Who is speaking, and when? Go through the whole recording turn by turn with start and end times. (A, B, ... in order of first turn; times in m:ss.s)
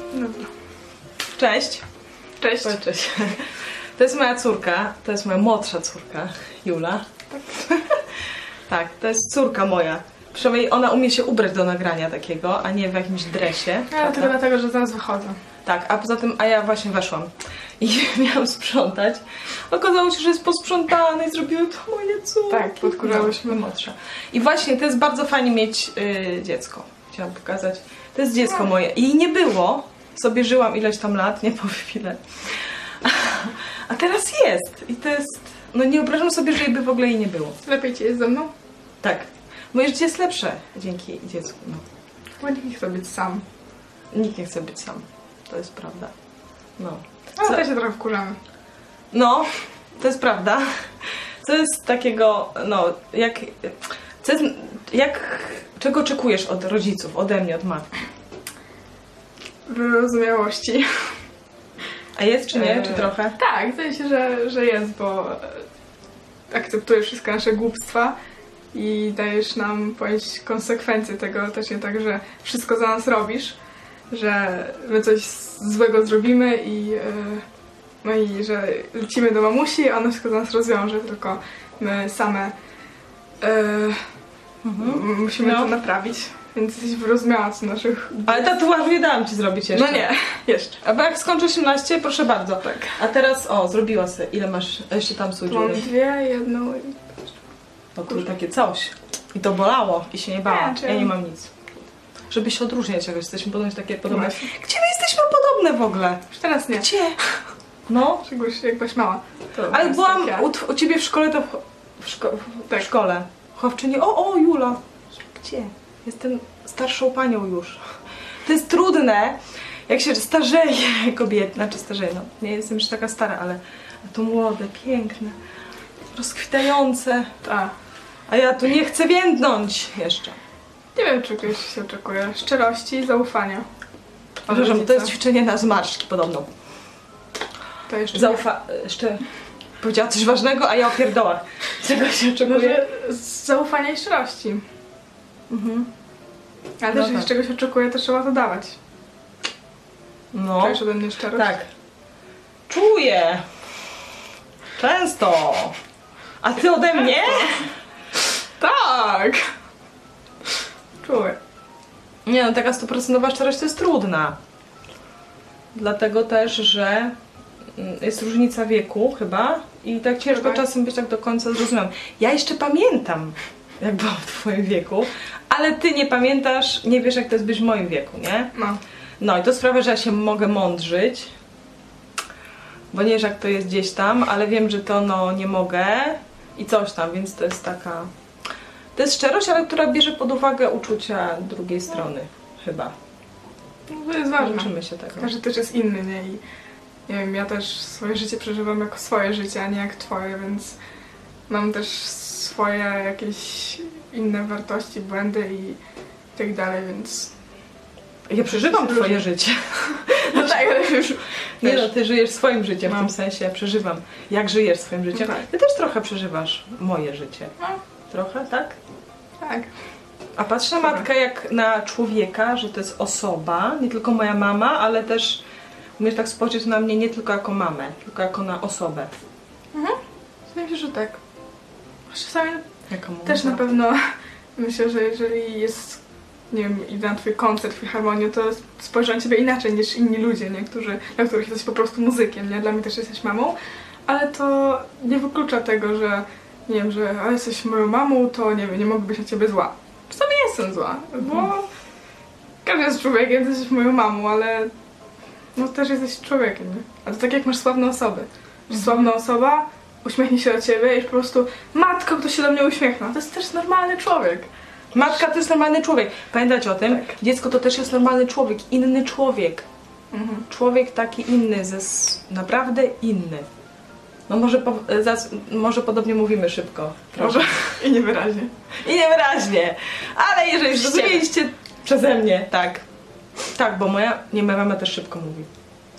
0:00.1-0:00.5 A
0:01.4-0:01.8 B
0:02.4-0:02.8 A
0:02.6-0:07.1 B
0:07.4-0:07.6 A
0:08.7-0:14.3 B
0:13.9-0:15.4 A
0:15.6-0:32.2 B
0:22.5-0:23.6 A
0:33.0-0:37.6 B
0:37.6-0:38.5 A
0:39.0-0:41.8 B
0:42.4-0:43.4 A
0:44.1-0:46.1 B
0:46.8-0:47.6 B
0:47.4-0:48.4 A
0:49.1-0:50.7 B
0:51.4-0:57.9 B
0:59.7-1:00.9 A
1:02.2-1:03.4 B
1:02.5-1:05.6 A
1:06.5-1:08.1 A
1:08.7-1:13.6 A
1:14.1-1:17.4 A
1:18.0-1:22.5 A
1:23.4-1:24.0 A
1:24.6-1:25.7 B
1:24.8-1:28.4 A
1:28.2-1:30.1 B
1:29.7-1:30.8 A
1:30.8-1:35.9 B
1:35.5-1:37.3 A
1:38.0-1:41.5 B
1:40.4-1:41.1 A
1:42.3-1:46.2 B
1:44.1-1:44.5 A
1:46.3-1:47.1 A
1:46.8-1:47.2 B
1:47.9-1:48.2 B
1:48.2-1:50.5 A
1:49.7-1:57.8 B
1:58.4-1:59.4 B
1:59.9-2:05.4 B
2:06.1-2:07.3 B
2:07.4-2:07.7 A
2:08.3-2:10.4 B
2:10.9-2:13.7 A
2:14.5-2:15.1 A
2:14.5-2:16.5 B
2:17.9-2:18.4 A
2:18.1-2:19.2 B
2:19.8-2:22.8 B
2:22.4-2:24.6 A
2:25.5-2:25.8 A
2:26.8-2:28.8 A
2:26.9-2:27.3 B
2:30.3-2:31.7 B
2:30.6-2:31.6 A
2:32.7-2:33.4 B
2:34.8-2:35.7 B
2:36.4-2:37.7 B
2:37.2-2:37.6 A
2:38.6-2:39.4 A
2:41.0-2:41.4 A
2:42.2-2:44.4 B
2:45.7-2:47.1 B
2:47.7-2:58.5 B
2:50.3-2:50.6 A
2:58.5-2:58.8 A
2:59.2-3:01.3 B
3:02.9-3:08.1 B
3:08.9-3:12.9 B
3:13.9-3:16.4 A
3:14.4-3:15.3 B
3:17.1-3:20.8 A
3:21.5-3:25.8 A
3:26.3-3:27.3 A
3:28.3-3:31.0 B
3:28.4-3:31.9 A
3:31.6-3:37.5 B
3:32.8-3:33.1 A
3:35.1-3:35.4 A
3:38.1-3:38.8 B
3:39.4-3:39.7 A
3:40.4-3:45.4 B
3:40.8-3:41.0 A
3:46.0-3:49.2 B
3:50.5-3:51.2 A
3:52.1-3:52.6 A
3:52.9-3:53.6 B
3:53.2-3:54.0 A
3:54.6-3:56.0 A
3:56.5-4:03.5 A
4:04.1-4:11.7 A
4:12.6-4:14.7 A
4:15.6-4:24.5 A
4:24.9-4:29.7 B
4:30.1-4:30.4 A
4:30.5-4:33.5 B
4:34.3-4:37.8 B
4:37.2-4:38.5 A
4:38.8-4:42.8 B
4:40.7-4:41.2 A
4:43.5-4:45.5 B